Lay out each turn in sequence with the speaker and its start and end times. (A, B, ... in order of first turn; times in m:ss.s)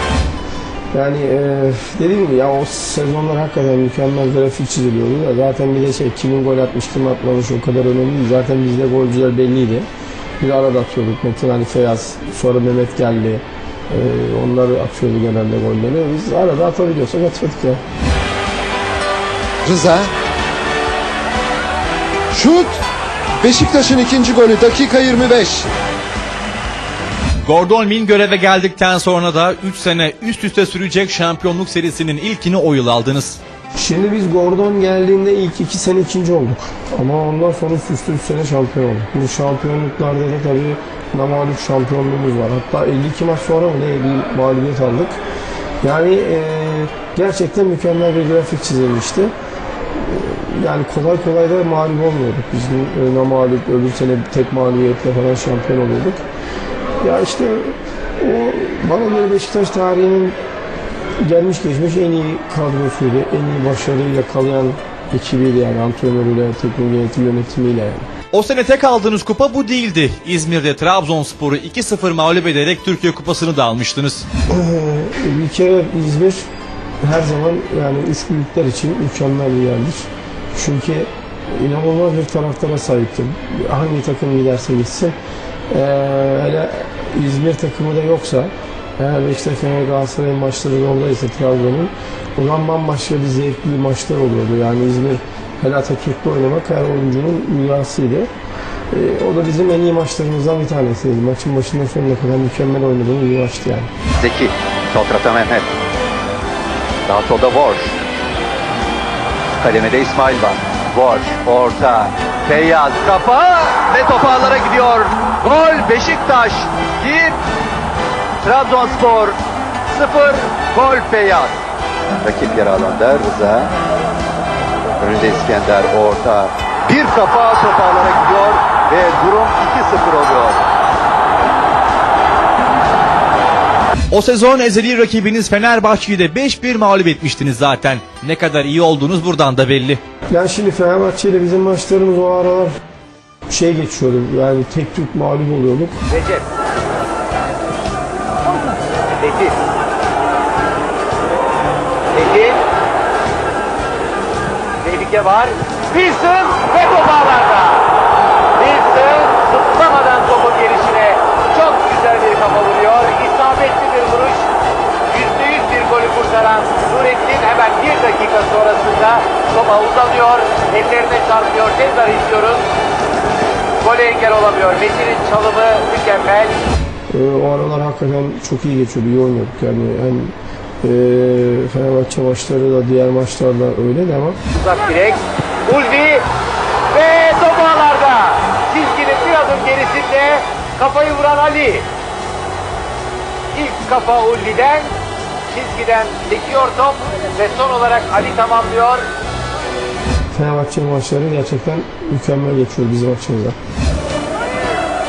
0:00.9-0:09.9 A
0:10.4-0:17.8 A
0:19.6-0:20.1 B
0:22.3-0:22.8 B
0:23.4-0:25.7 B
0:27.4-0:33.4 C
0:33.7-0:45.2 A
0:45.8-0:49.3 A
0:49.9-0:56.2 A
0:57.0-1:00.4 A
1:01.2-1:08.1 A
1:08.3-1:14.2 C
1:14.5-1:16.4 A
1:17.0-1:25.2 A
1:25.7-1:38.3 A
1:38.9-1:43.9 A
1:44.2-1:45.7 D
1:47.1-1:47.9 D
1:49.6-1:57.3 D
1:58.4-1:59.4 D
1:59.9-2:01.6 D
2:02.2-2:03.7 D
2:05.0-2:10.6 D
2:14.1-2:20.0 C
2:20.3-2:22.8 A
2:23.5-2:26.0 A
2:26.1-2:26.4 E
2:29.2-2:29.6 E
2:32.1-2:32.6 E
2:34.8-2:37.9 E
2:38.6-2:44.4 E
2:45.1-2:52.6 E
2:53.8-2:56.6 E
2:57.1-3:04.4 A
3:04.5-3:06.2 E
3:06.9-3:11.8 E
3:13.5-3:14.9 E
3:15.5-3:19.0 E
3:20.3-3:23.6 A